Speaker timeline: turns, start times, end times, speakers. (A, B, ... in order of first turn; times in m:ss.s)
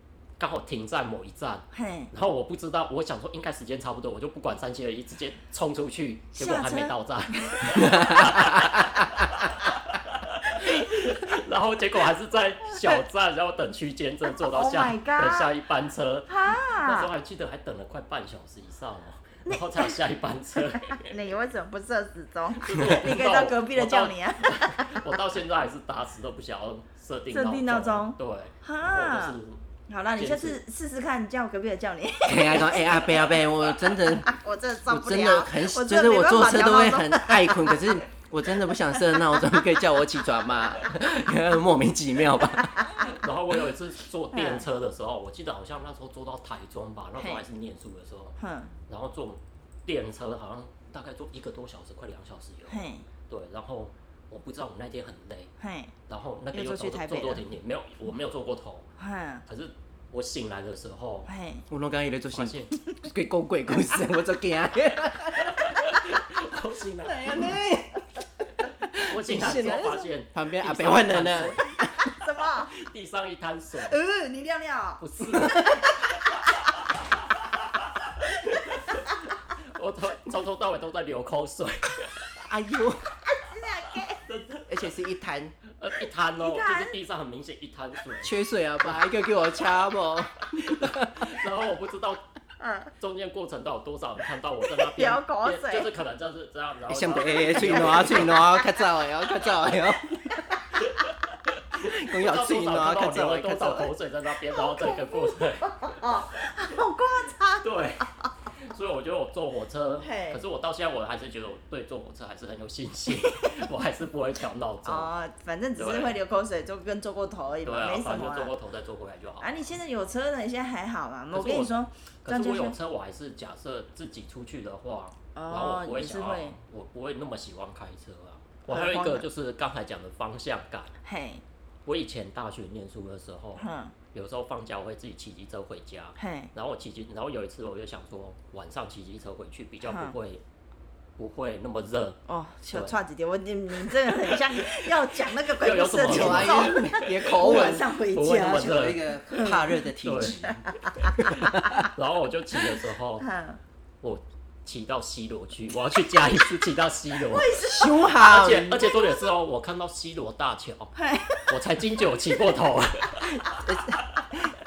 0:00.4-0:21.2 A
0:01.7-0:02.1 B
0:06.4-0:08.6 B
0:08.0-0:08.6 C
0:10.6-0:11.2 B
0:14.4-0:15.5 B
0:16.3-0:17.1 B
0:19.5-0:20.0 B
0:20.7-0:25.2 B
0:22.6-0:29.6 A
0:27.3-0:29.4 B
0:29.9-0:37.9 B
0:30.2-0:30.6 A
0:32.2-0:34.4 C
0:34.9-0:43.1 C
0:39.0-0:39.4 B
0:42.5-0:43.1 B
0:43.0-0:48.4 A
0:44.3-0:44.7 B
0:47.2-0:47.4 B
0:48.4-0:48.7 B
0:48.9-0:55.5 A
0:52.7-0:53.1 B
0:55.6-0:55.9 B
0:56.1-0:58.9 A
0:56.5-0:57.4 B
0:59.0-0:59.4 B
0:59.5-1:01.3 A
1:01.3-1:01.6 B
1:01.7-1:06.0 C
1:02.3-1:02.7 A
1:05.4-1:07.5 A
1:07.1-1:07.8 B
1:07.2-1:07.9 C
1:08.9-1:12.1 C
1:09.0-1:11.6 A
1:09.5-1:10.1 B
1:11.6-1:12.7 B
1:12.8-1:14.0 A
1:13.8-1:16.7 B
1:15.0-1:22.4 A
1:15.3-1:15.9 C
1:18.5-1:19.2 B
1:22.4-1:23.1 C
1:23.3-1:24.2 B
1:24.0-1:24.8 A
1:24.7-1:25.6 C
1:25.7-1:28.4 A
1:26.4-1:27.0 B
1:28.2-1:31.4 C
1:30.6-1:32.2 A
1:32.6-1:32.9 B
1:33.0-1:38.4 A
1:34.8-1:35.9 B
1:36.9-1:40.5 C
1:37.6-1:39.0 B
1:40.8-1:41.2 A
1:41.7-1:43.9 C
1:41.8-1:46.0 A
1:44.6-1:48.3 B
1:47.6-1:48.1 A
1:48.6-1:55.1 A
1:50.0-1:50.4 B
1:53.2-1:53.5 B
1:54.8-1:58.5 B
1:55.8-1:56.2 A
1:57.6-1:59.8 A
1:59.4-2:02.8 B
2:01.3-2:01.7 A
2:02.2-2:10.9 A
2:05.4-2:06.6 B
2:08.7-2:09.2 B
2:11.0-2:11.4 B
2:11.9-2:20.4 A
2:13.6-2:14.0 B
2:16.2-2:16.5 B
2:19.8-2:20.2 B
2:21.2-2:22.2 A
2:22.3-2:29.6 B
2:25.6-2:29.0 A
2:26.1-2:31.9 C
2:30.0-2:30.4 A
2:30.3-2:31.2 B
2:31.3-2:33.3 A
2:33.2-2:33.6 B
2:34.0-2:40.9 A
2:37.3-2:39.3 B
2:37.7-2:38.9 C
2:41.0-2:41.6 B
2:41.5-2:44.2 A
2:43.4-2:44.6 C